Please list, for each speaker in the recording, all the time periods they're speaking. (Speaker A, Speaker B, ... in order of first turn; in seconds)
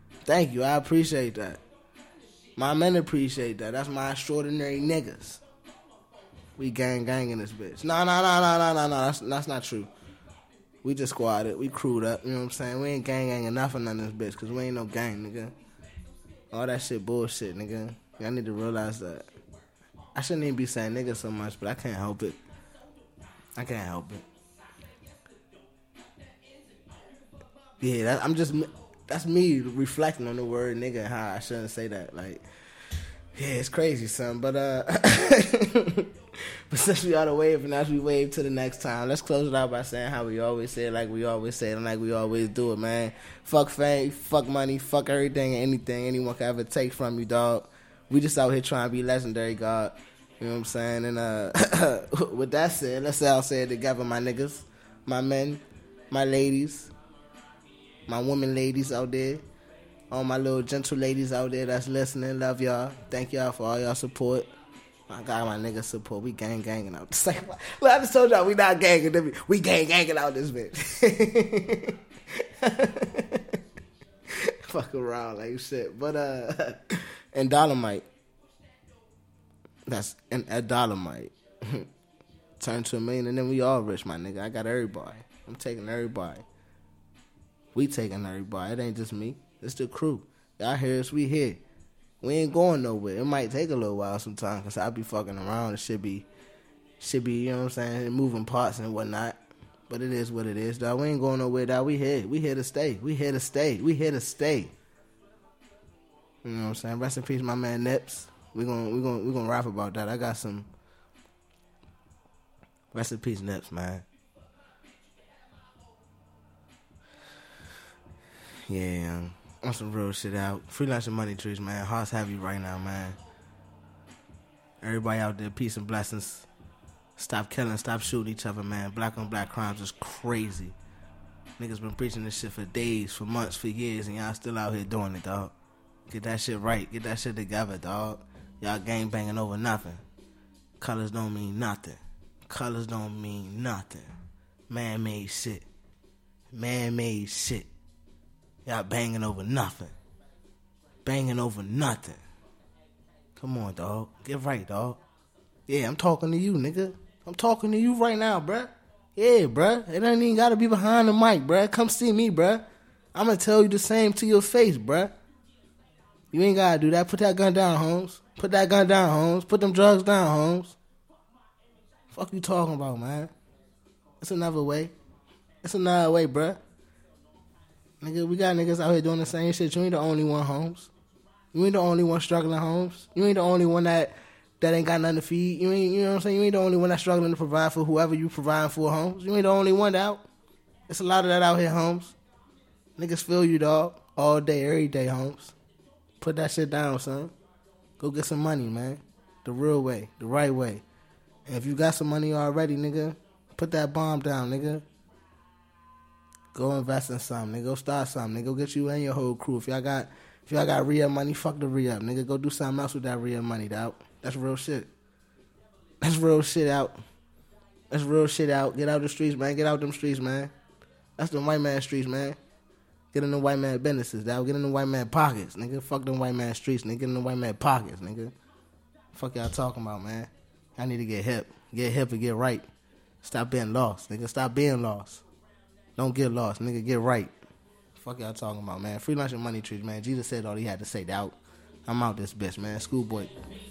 Speaker A: 0.3-1.6, 2.6-5.4, 6.6-9.9, 10.8-15.5, 16.5-19.3, 20.1-22.4, 23.6-24.2, 27.8-32.5, 33.3-56.9, 58.1-59.4, 60.1-64.5, 65.1-73.6, 74.3-78.1, 79.9-81.9, 82.6-86.4, 87.7-91.6, 92.2-96.3, 97.0-104.7, 106.4-110.7, 112.9-114.0, 118.7-123.2, 124.8-126.5, 127.2-130.8, 131.6-135.5, 136.1-140.0, 140.8-144.1, 144.7-145.7, 146.5-147.7, 148.7-149.9, 151.1-152.2, 153.4-155.0, 155.7-165.1, 166.3-170.8, 172.1-173.3, 174.2-174.9, 175.6-176.6, 178.0-180.9, 181.5-190.2, 190.9-192.1, 193.0-195.5, 196.2-197.3, 198.0-200.8, 201.5-204.8, 206.5-214.9, 216.0-217.0, 217.9-220.5, 221.2-222.4, 223.1-228.3, 229.1-232.7, 233.2-235.2, 236.0-237.4, 237.9-243.3